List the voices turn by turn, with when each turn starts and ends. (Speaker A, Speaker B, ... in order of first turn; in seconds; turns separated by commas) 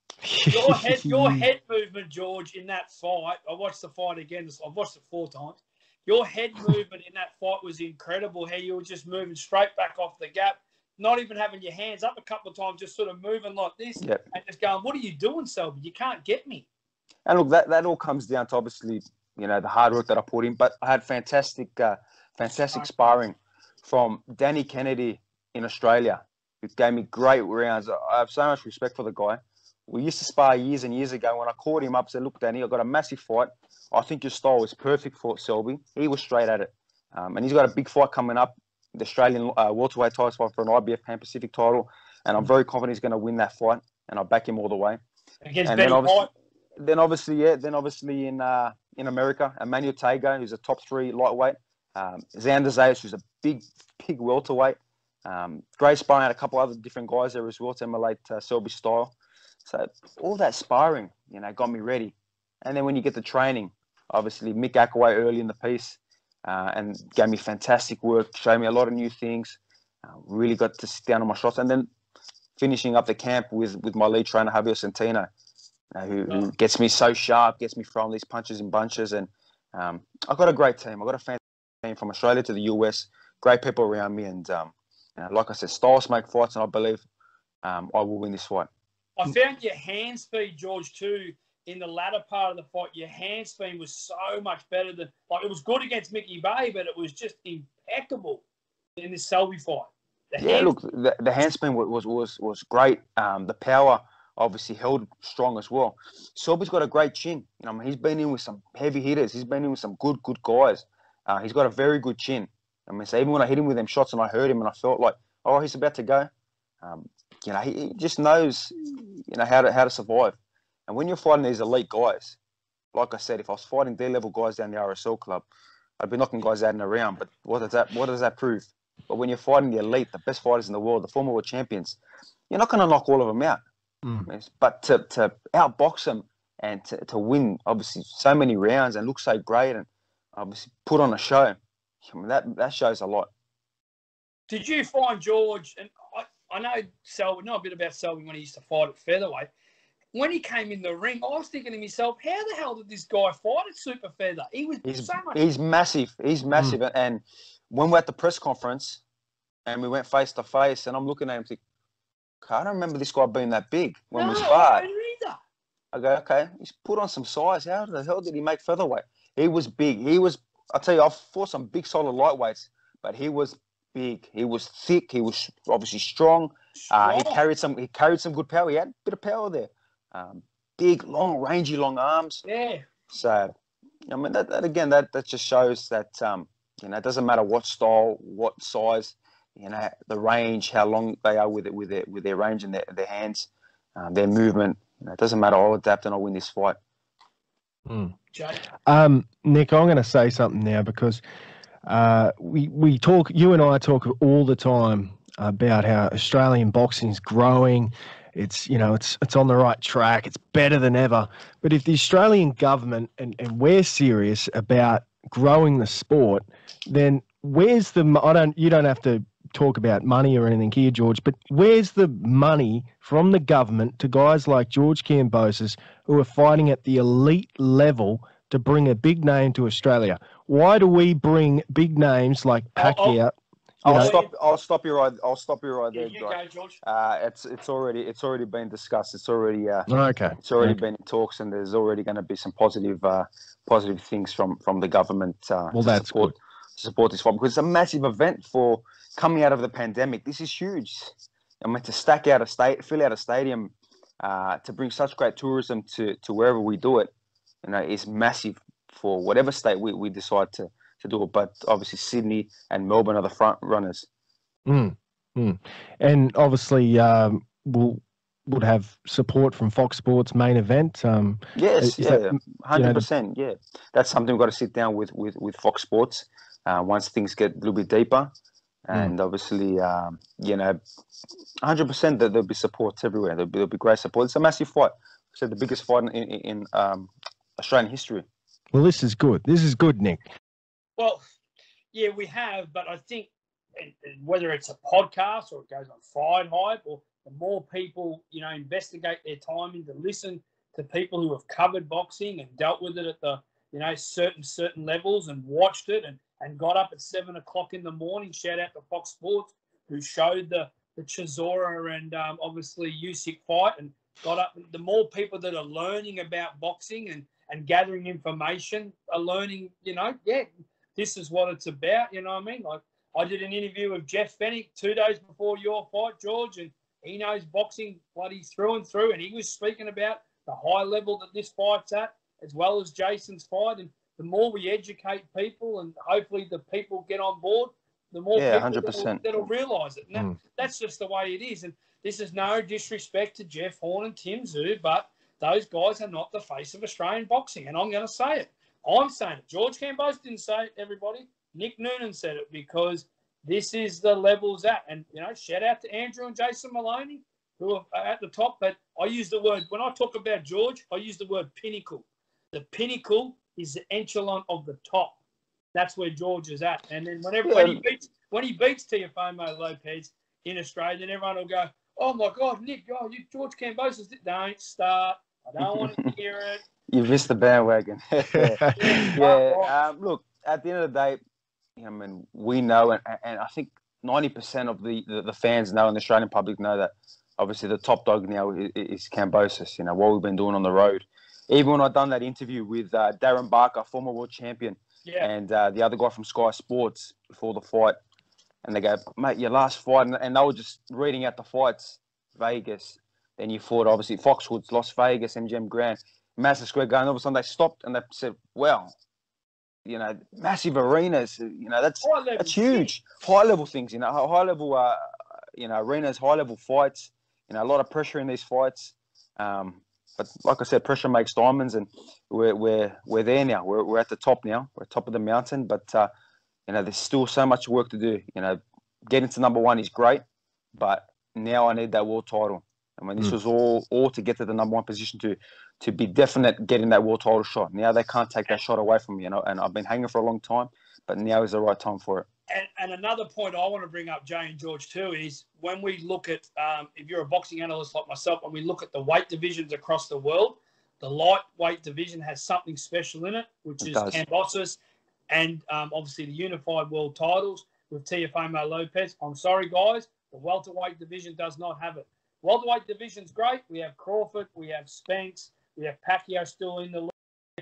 Speaker A: 0.2-1.5, Speaker B: 0.5-16.7, Speaker C: 17.2-45.0, Speaker B: 45.4-46.3, Speaker C: 45.6-46.2, Speaker C: 46.8-59.1, Speaker C: 59.6-71.9, Speaker C: 72.6-75.3, Speaker C: 76.0-87.0, Speaker C: 87.6-88.7, Speaker B: 89.2-98.4, Speaker B: 99.0-100.7, Speaker C: 100.4-116.3, Speaker C: 116.8-122.4, Speaker C: 122.9-125.5, Speaker C: 126.0-132.0, Speaker C: 132.5-133.6, Speaker C: 134.2-143.3, Speaker B: 144.5-149.5, Speaker B: 150.1-155.4, Speaker C: 154.8-159.0, Speaker C: 159.7-161.6, Speaker C: 162.4-164.9, Speaker B: 164.1-165.4, Speaker C: 165.9-182.4, Speaker B: 176.8-177.4, Speaker B: 182.4-182.9, Speaker C: 183.1-183.5, Speaker C: 184.1-196.8, Speaker A: 197.9-198.1, Speaker B: 198.3-198.6, Speaker A: 198.9-201.2, Speaker A: 201.8-234.1, Speaker B: 232.8-233.2, Speaker C: 233.8-239.9, Speaker B: 233.9-234.3, Speaker B: 235.9-236.8, Speaker A: 239.9-240.8, Speaker C: 240.4-257.1, Speaker A: 245.7-246.3, Speaker C: 257.6-264.1, Speaker A: 264.6-273.1, Speaker C: 271.5-278.3, Speaker C: 278.9-280.8, Speaker C: 281.6-288.2, Speaker A: 288.7-290.3, Speaker B: 291.0-291.2, Speaker B: 291.9-365.2, Speaker C: 338.4-339.2, Speaker B: 365.7-376.6, Speaker C: 367.4-367.8, Speaker C: 375.6-376.1, Speaker C: 376.9-381.2, Speaker A: 378.3-379.1, Speaker B: 378.8-379.7, Speaker C: 381.8-398.0, Speaker B: 395.0-395.3, Speaker C: 398.6-408.9, Speaker C: 409.9-415.0, Speaker B: 412.0-412.9, Speaker C: 415.6-426.1, Speaker C: 426.7-430.2, Speaker C: 430.8-442.3, Speaker B: 442.5-454.8, Speaker C: 453.8-454.2, Speaker B: 455.3-467.1